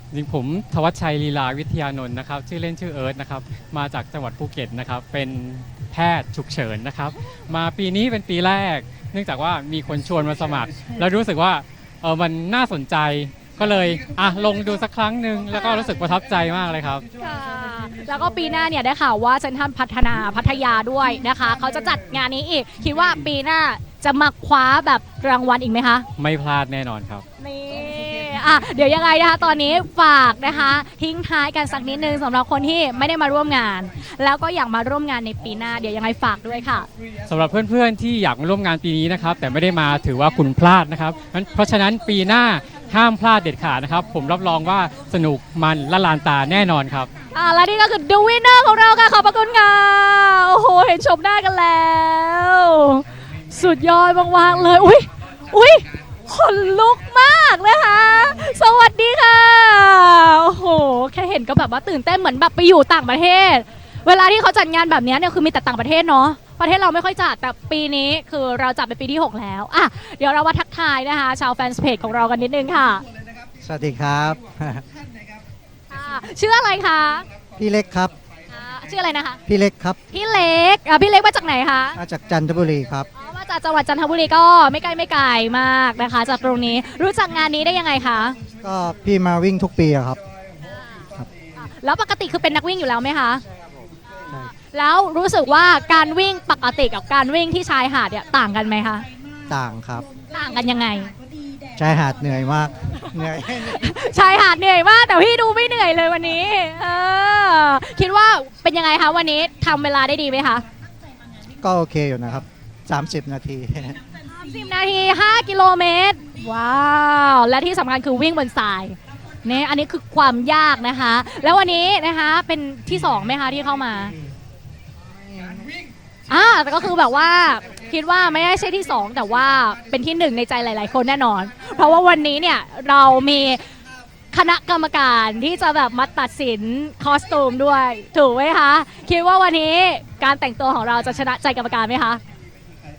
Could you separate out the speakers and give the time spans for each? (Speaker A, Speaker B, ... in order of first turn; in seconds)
Speaker A: 0.1-17.1, 26.2-27.2, 37.3-47.1
Speaker B: 15.6-15.9, 17.2-26.1, 27.4-36.9, 47.3-73.0, 75.9-77.3, 78.5-79.4, 80.1-82.0, 83.1-88.4, 90.8-93.4, 94.6-99.0, 100.3-101.1, 103.0-110.6, 114.3-124.1, 126.3-133.6, 134.3-142.2
Speaker C: 73.6-74.8, 77.6-78.1, 79.5-80.0, 82.0-83.1, 88.6-90.2, 99.5-100.1, 101.7-103.9, 111.6-114.0